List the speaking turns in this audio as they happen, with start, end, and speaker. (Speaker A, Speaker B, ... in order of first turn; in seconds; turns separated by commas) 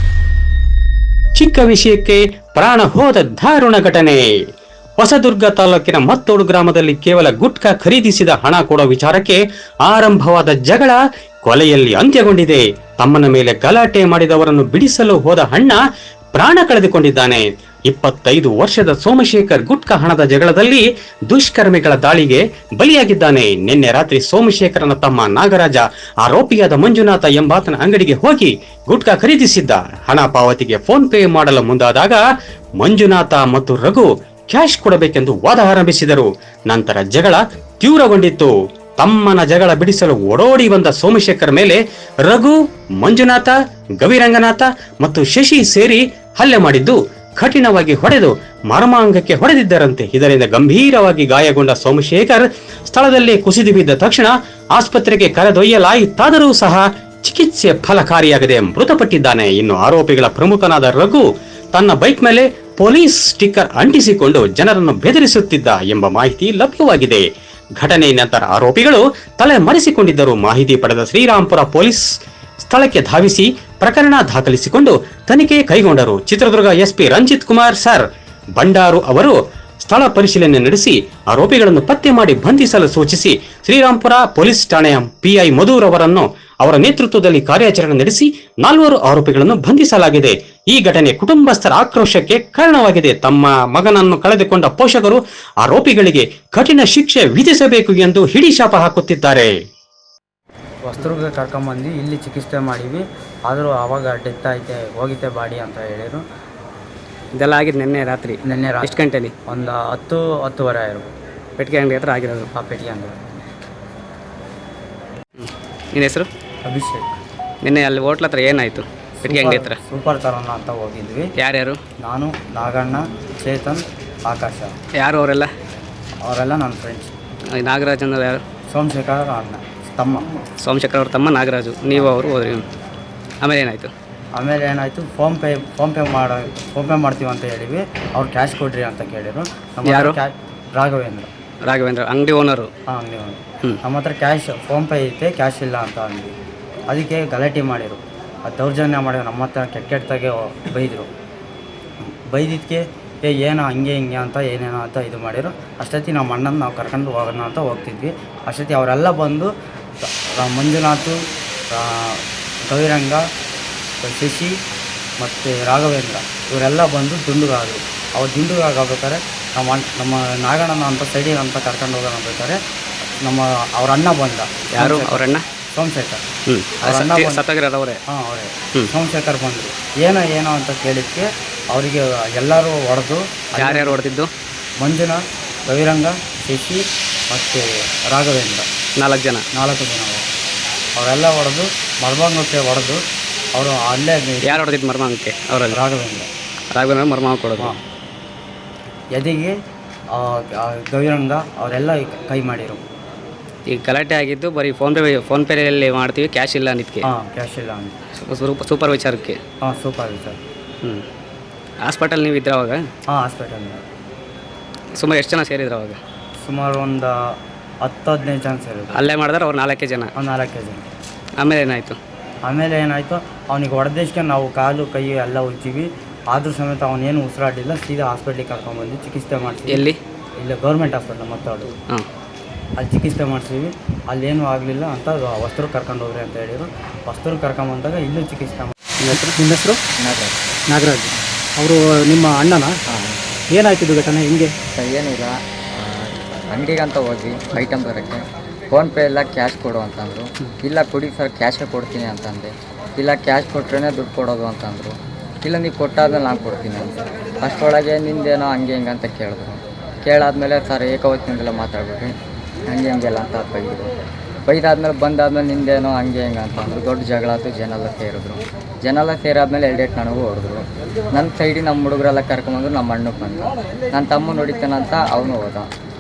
Speaker A: 1.4-4.2, Speaker A: 5.0-15.8, Speaker A: 16.4-32.2, Speaker A: 32.8-67.2, Speaker A: 67.8-72.0, Speaker A: 72.7-78.0, Speaker A: 78.6-99.5, Speaker B: 100.8-106.2, Speaker C: 107.4-109.3, Speaker B: 108.5-109.0, Speaker B: 109.5-111.1, Speaker C: 111.6-112.5, Speaker B: 112.5-113.2, Speaker C: 115.4-116.3, Speaker B: 116.6-117.2, Speaker C: 117.6-119.8, Speaker B: 119.2-121.3, Speaker C: 121.4-121.8, Speaker B: 122.0-124.7, Speaker C: 125.0-125.5, Speaker B: 126.2-127.1, Speaker C: 127.6-128.4, Speaker B: 128.7-130.3, Speaker C: 130.6-132.7, Speaker C: 133.4-133.9, Speaker B: 134.3-141.3, Speaker C: 139.8-140.2, Speaker C: 141.7-142.7, Speaker B: 142.9-146.3, Speaker B: 146.9-151.1, Speaker B: 152.0-159.5, Speaker B: 160.0-161.2, Speaker B: 161.7-163.2, Speaker B: 164.0-164.5, Speaker B: 165.2-172.6, Speaker B: 173.2-175.2, Speaker C: 174.8-175.4, Speaker B: 175.8-176.2, Speaker C: 176.5-178.0, Speaker B: 176.8-177.4, Speaker B: 178.1-184.0, Speaker C: 183.6-184.3, Speaker B: 184.8-188.7, Speaker C: 189.0-189.4, Speaker B: 189.5-190.2, Speaker B: 191.0-193.0, Speaker B: 193.5-194.7, Speaker C: 194.4-195.8, Speaker B: 195.7-196.3, Speaker C: 196.7-197.8, Speaker B: 199.1-199.5, Speaker B: 200.1-202.8, Speaker C: 203.7-207.1, Speaker B: 207.0-207.9, Speaker C: 208.2-209.4, Speaker B: 209.6-210.4, Speaker C: 211.8-212.8, Speaker B: 213.1-213.8, Speaker C: 215.0-216.0, Speaker B: 216.4-217.1, Speaker B: 217.8-219.1, Speaker C: 218.9-220.1, Speaker B: 220.2-220.8, Speaker C: 221.4-222.0, Speaker B: 222.4-229.8, Speaker C: 229.7-230.0, Speaker B: 230.4-231.7, Speaker B: 232.8-238.7, Speaker C: 239.0-239.3, Speaker D: 239.1-239.8, Speaker E: 240.0-240.4, Speaker D: 240.7-242.7, Speaker E: 242.9-243.2, Speaker D: 243.5-244.5, Speaker E: 244.7-262.1, Speaker E: 262.7-263.9, Speaker E: 264.5-275.7